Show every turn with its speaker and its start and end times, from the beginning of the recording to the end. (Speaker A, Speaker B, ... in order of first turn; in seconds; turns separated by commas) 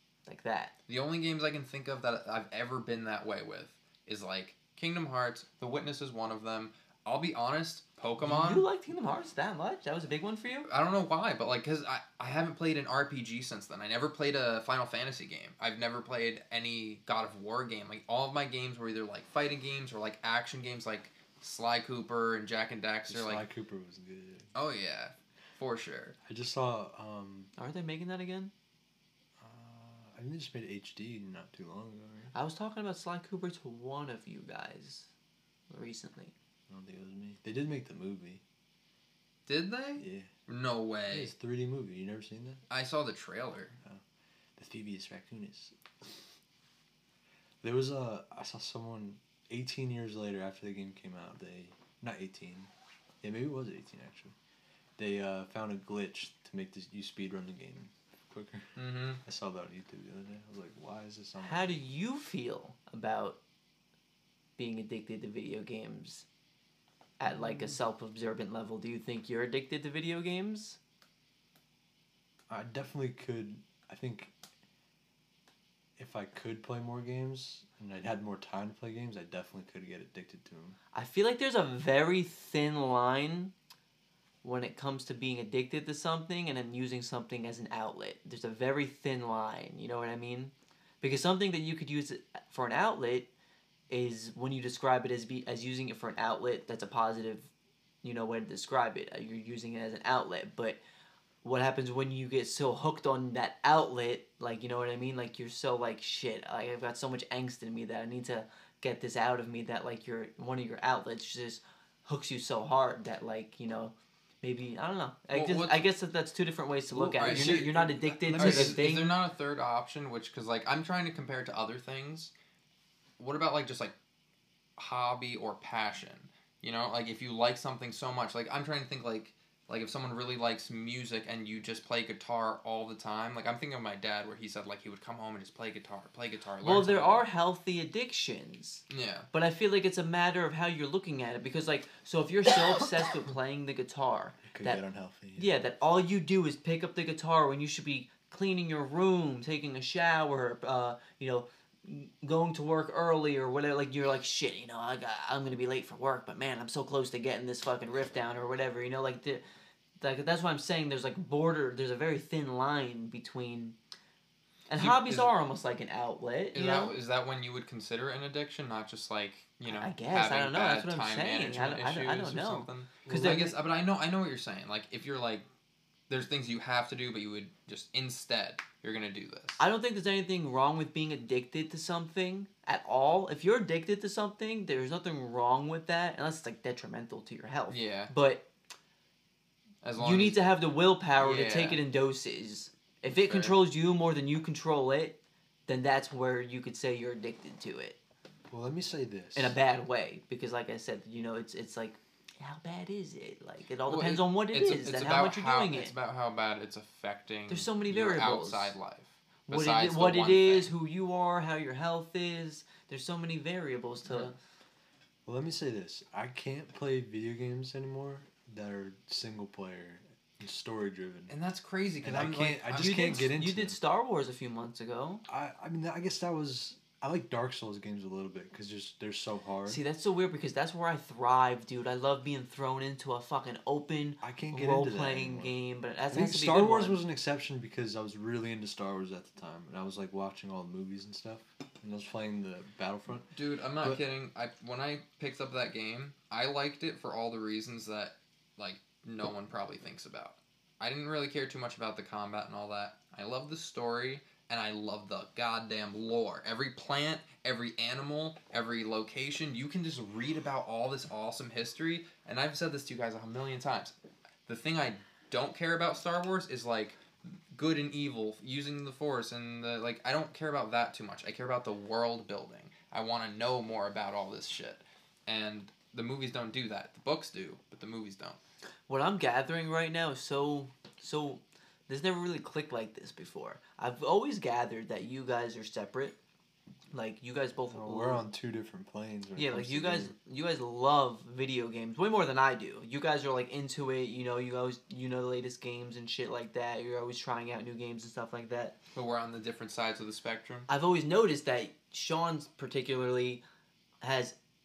Speaker A: 0.3-0.7, Speaker B: 0.9-8.7, Speaker A: 8.2-10.7, Speaker B: 10.7-23.5, Speaker C: 23.1-24.5, Speaker B: 24.5-26.2, Speaker C: 26.3-27.5, Speaker A: 27.6-28.5, Speaker C: 29.4-32.3, Speaker A: 32.3-35.1, Speaker A: 35.7-36.3, Speaker C: 36.7-38.4, Speaker B: 39.5-41.3, Speaker C: 40.0-40.3, Speaker C: 41.1-42.6, Speaker B: 42.7-43.8, Speaker C: 44.6-45.8, Speaker C: 47.6-52.7, Speaker C: 53.2-54.4, Speaker C: 55.0-61.8, Speaker B: 58.8-59.2, Speaker A: 61.4-63.4, Speaker A: 64.6-66.2, Speaker A: 67.2-70.8, Speaker C: 72.5-74.3, Speaker C: 76.0-80.8, Speaker A: 80.9-83.5, Speaker A: 84.4-93.3, Speaker A: 93.9-97.5, Speaker A: 98.0-100.8, Speaker A: 101.4-119.2, Speaker B: 115.3-115.8, Speaker B: 116.9-122.3, Speaker C: 117.2-118.9, Speaker B: 123.2-124.0, Speaker B: 124.8-137.2, Speaker A: 136.6-144.8, Speaker B: 138.9-139.3, Speaker C: 144.5-145.5, Speaker A: 145.4-159.4, Speaker A: 160.0-163.8, Speaker A: 164.7-167.0, Speaker B: 164.7-165.3, Speaker B: 166.5-175.5, Speaker A: 169.7-173.6, Speaker C: 173.1-173.4, Speaker B: 176.1-179.6, Speaker A: 179.6-188.5, Speaker B: 187.7-188.1, Speaker B: 189.8-190.4, Speaker A: 190.0-198.0, Speaker B: 191.2-191.8, Speaker B: 193.1-193.6, Speaker C: 198.5-199.6, Speaker A: 199.3-205.9, Speaker B: 203.9-210.7, Speaker A: 207.5-208.7, Speaker A: 209.5-214.3, Speaker C: 215.3-221.3, Speaker B: 221.3-223.3, Speaker C: 222.0-223.8, Speaker A: 222.7-225.2, Speaker C: 225.3-229.8, Speaker A: 229.7-237.0, Speaker C: 234.2-235.5, Speaker C: 236.1-244.0, Speaker B: 243.3-263.9, Speaker B: 264.5-278.4, Speaker A: 278.9-286.2, Speaker A: 286.9-288.3, Speaker C: 287.7-290.1, Speaker A: 289.4-298.8, Speaker B: 298.9-300.7, Speaker A: 300.7-303.4, Speaker A: 304.0-304.4